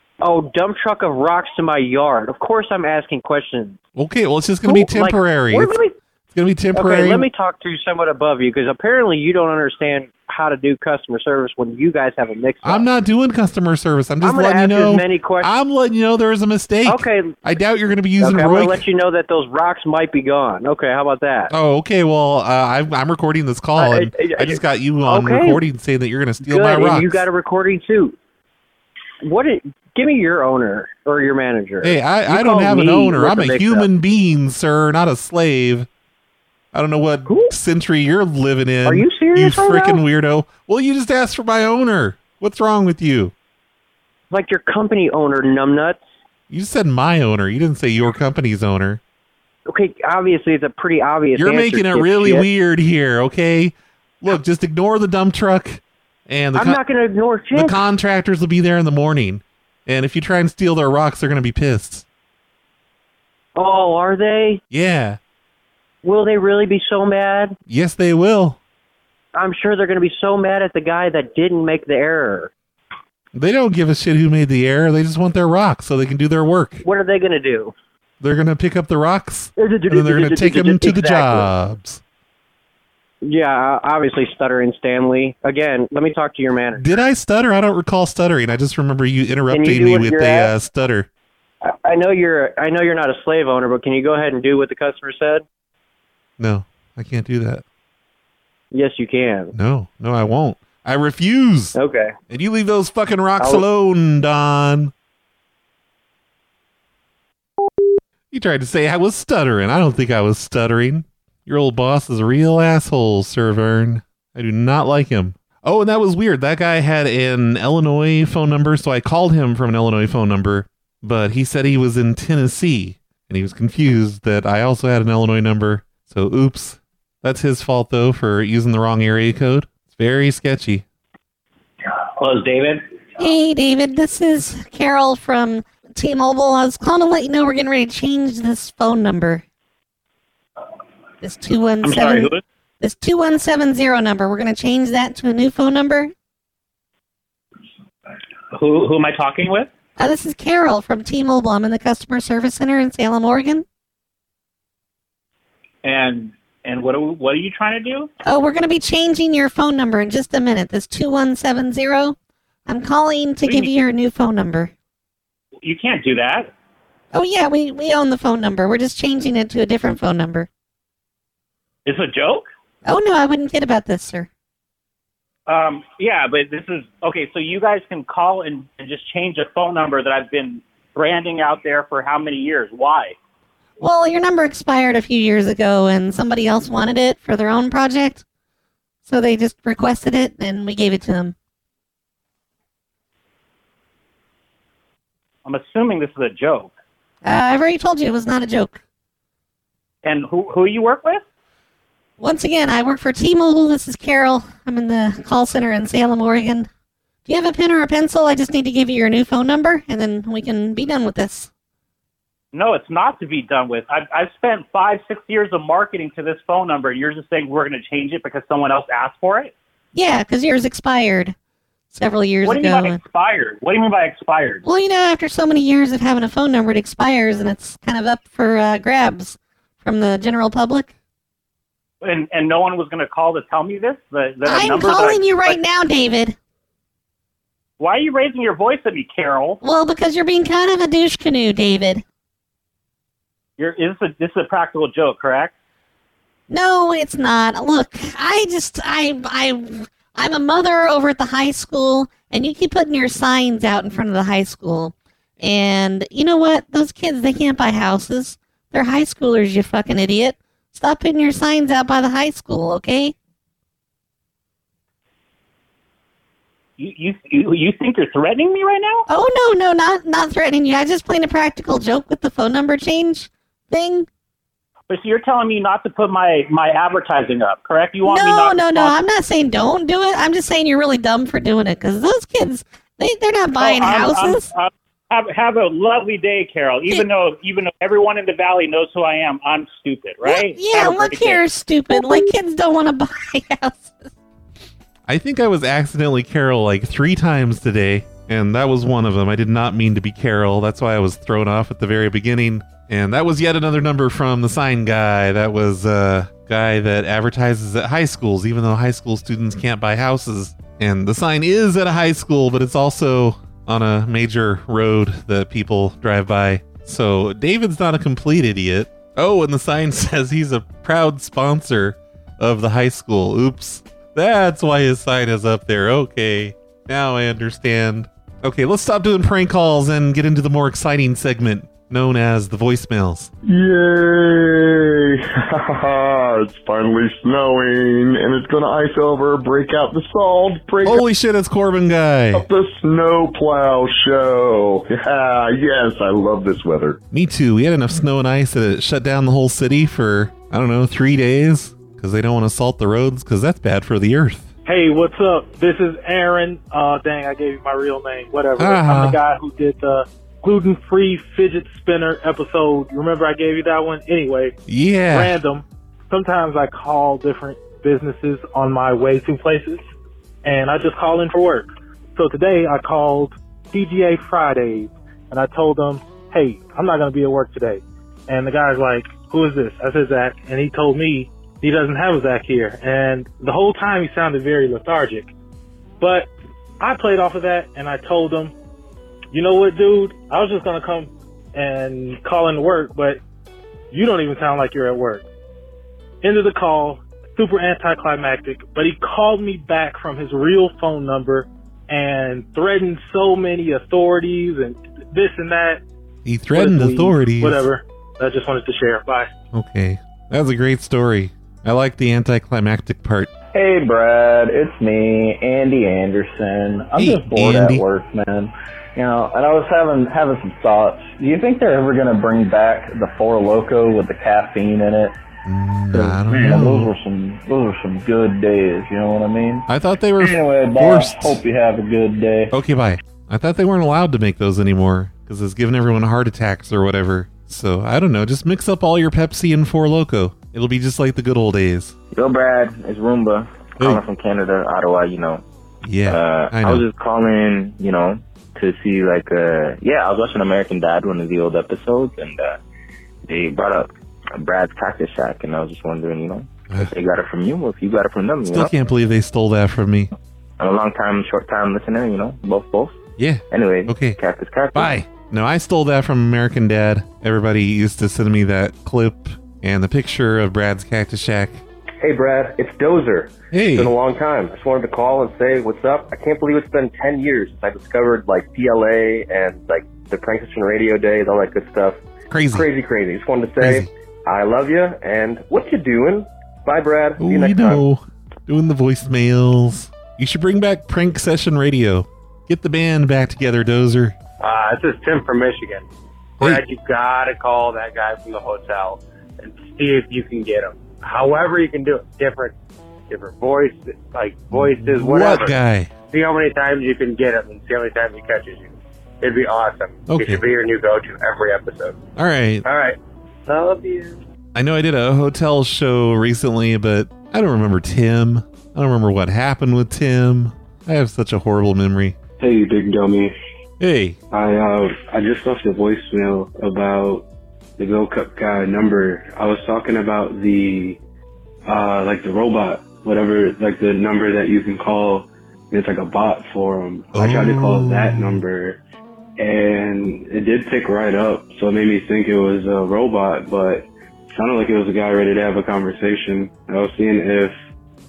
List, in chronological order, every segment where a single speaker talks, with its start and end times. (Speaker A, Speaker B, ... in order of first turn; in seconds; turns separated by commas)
Speaker A: 0.2-3.8, Speaker B: 4.0-5.8, Speaker A: 4.6-5.9, Speaker B: 6.3-7.3, Speaker A: 6.7-12.9, Speaker B: 12.6-18.9, Speaker A: 14.2-15.5, Speaker A: 16.9-17.4, Speaker A: 18.2-21.5, Speaker B: 21.5-27.2, Speaker A: 23.8-25.6, Speaker A: 26.4-28.2, Speaker A: 29.2-33.9, Speaker B: 31.8-35.9, Speaker B: 36.7-43.3, Speaker A: 38.9-40.0, Speaker A: 44.3-46.0, Speaker B: 46.5-49.0, Speaker A: 49.7-52.5, Speaker B: 51.4-56.8, Speaker A: 56.5-57.8, Speaker B: 57.5-62.0, Speaker A: 63.6-64.6, Speaker B: 64.7-65.2, Speaker A: 66.0-67.6, Speaker B: 67.7-68.6, Speaker A: 69.3-72.5, Speaker B: 73.3-76.8, Speaker A: 76.8-77.7, Speaker B: 78.2-82.0, Speaker A: 79.6-81.5, Speaker A: 83.2-87.0, Speaker B: 86.8-91.1, Speaker A: 89.5-90.5, Speaker A: 91.6-95.5, Speaker B: 96.4-97.6, Speaker A: 98.7-99.5, Speaker B: 99.5-101.8, Speaker A: 101.8-102.1, Speaker B: 102.3-104.9, Speaker A: 103.4-103.6, Speaker B: 108.3-130.8, Speaker C: 132.2-132.8, Speaker D: 133.2-139.4, Speaker D: 141.2-146.1, Speaker C: 141.8-142.4, Speaker C: 148.5-149.7, Speaker D: 150.0-153.7, Speaker C: 155.8-158.1, Speaker D: 158.2-164.7, Speaker C: 163.4-163.7, Speaker C: 165.6-166.5, Speaker D: 167.1-170.5, Speaker C: 171.9-172.5, Speaker D: 172.8-174.3, Speaker C: 175.5-183.2, Speaker D: 183.8-188.2, Speaker D: 189.1-191.3, Speaker C: 195.5-196.7, Speaker D: 197.2-198.8, Speaker C: 200.0-201.2, Speaker D: 202.2-206.7, Speaker D: 207.3-211.5, Speaker C: 212.5-219.5, Speaker D: 219.9-221.4, Speaker D: 221.9-223.0, Speaker C: 222.4-224.6, Speaker D: 224.6-230.9, Speaker C: 232.0-235.6, Speaker D: 234.4-236.3, Speaker C: 237.8-239.6, Speaker D: 239.6-242.0, Speaker C: 243.6-245.5, Speaker D: 246.5-263.1, Speaker C: 266.8-269.1, Speaker D: 269.1-274.1, Speaker C: 274.9-279.0, Speaker D: 278.0-284.5, Speaker C: 283.6-291.5, Speaker D: 290.2-294.0, Speaker B: 295.1-333.3, Speaker E: 333.4-341.0, Speaker B: 340.8-342.5, Speaker E: 342.3-347.0, Speaker B: 347.1-354.5, Speaker F: 354.7-364.6, Speaker B: 358.6-359.2, Speaker B: 364.7-365.4, Speaker F: 365.1-369.8, Speaker F: 370.4-385.3, Speaker F: 386.0-388.5, Speaker F: 389.3-393.2, Speaker F: 393.9-395.2, Speaker F: 396.2-405.8, Speaker B: 406.2-407.6, Speaker F: 406.5-409.3, Speaker B: 409.5-413.3, Speaker G: 413.5-425.1, Speaker B: 417.0-417.8, Speaker B: 425.4-426.9, Speaker G: 425.9-429.7, Speaker B: 429.7-431.4, Speaker G: 430.2-432.5, Speaker B: 432.5-441.9, Speaker H: 442.1-445.4, Speaker B: 445.8-446.9, Speaker H: 446.1-452.6, Speaker H: 453.3-458.7, Speaker B: 458.5-460.1, Speaker H: 460.6-463.0, Speaker B: 463.2-464.2, Speaker H: 463.5-464.9, Speaker B: 464.7-471.6, Speaker I: 472.0-482.0, Speaker B: 473.5-473.9, Speaker B: 482.3-482.7, Speaker I: 482.5-487.8, Speaker B: 483.6-483.9, Speaker B: 487.2-494.2, Speaker J: 494.4-495.9, Speaker J: 496.4-502.5, Speaker J: 503.1-505.6, Speaker B: 504.5-505.9, Speaker J: 506.1-512.0, Speaker B: 510.1-510.4, Speaker B: 512.2-512.6, Speaker J: 512.6-513.0, Speaker J: 513.5-514.2, Speaker B: 514.5-522.2, Speaker K: 522.4-523.4, Speaker B: 523.8-524.2, Speaker K: 524.3-527.3, Speaker K: 527.8-531.0, Speaker K: 531.7-538.8, Speaker B: 537.1-538.4, Speaker K: 539.4-547.5